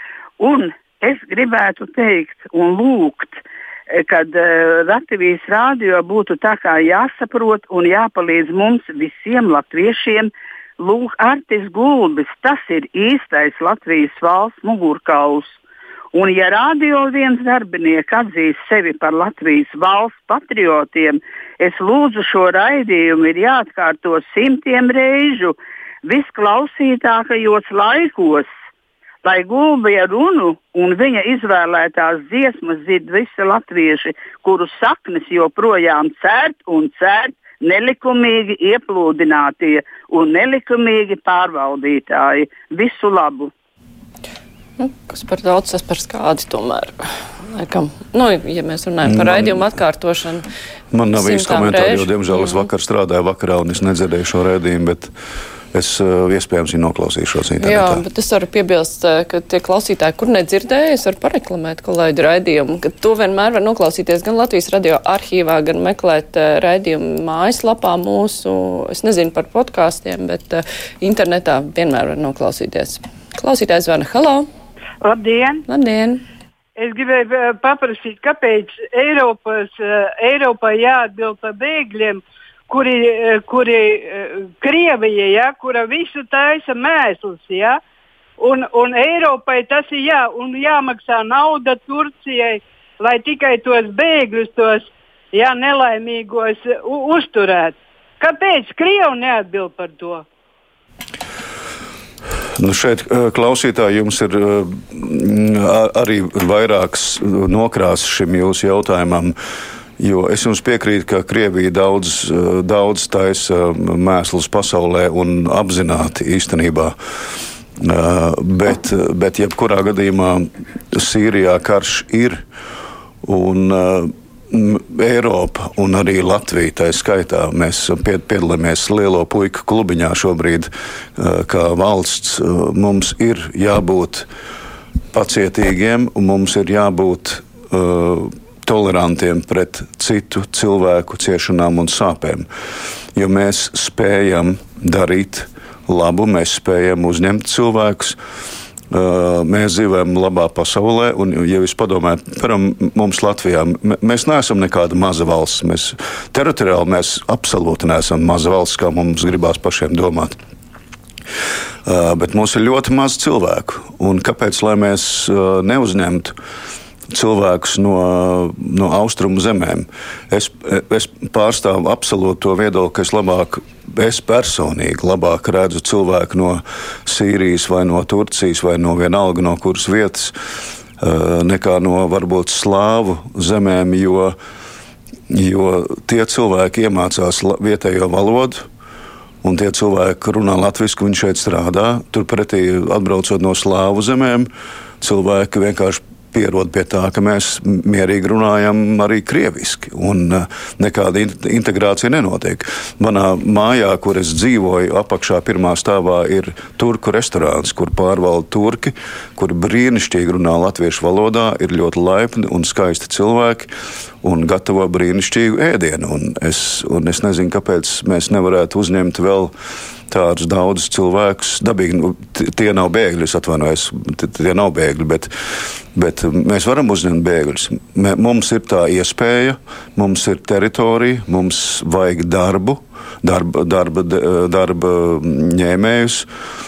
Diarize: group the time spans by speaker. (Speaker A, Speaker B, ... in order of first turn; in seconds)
Speaker A: 0.4-15.6, 16.1-28.5, 29.2-43.5
Speaker B: 44.8-50.5, 51.1-52.6, 57.6-74.5, 75.7-76.2
Speaker C: 49.0-49.6, 50.9-55.1, 55.7-58.0, 102.6-109.3, 110.0-117.0, 117.8-122.4, 123.2-134.3, 135.1-142.5, 143.1-148.2, 148.9-160.4, 161.8-166.3, 167.1-180.3, 181.0-184.4, 185.3-188.7, 189.4-194.5, 195.0-213.7, 214.2-219.5, 220.1-225.3, 225.9-236.3
Speaker D: 75.0-75.6, 76.8-87.8, 88.4-100.2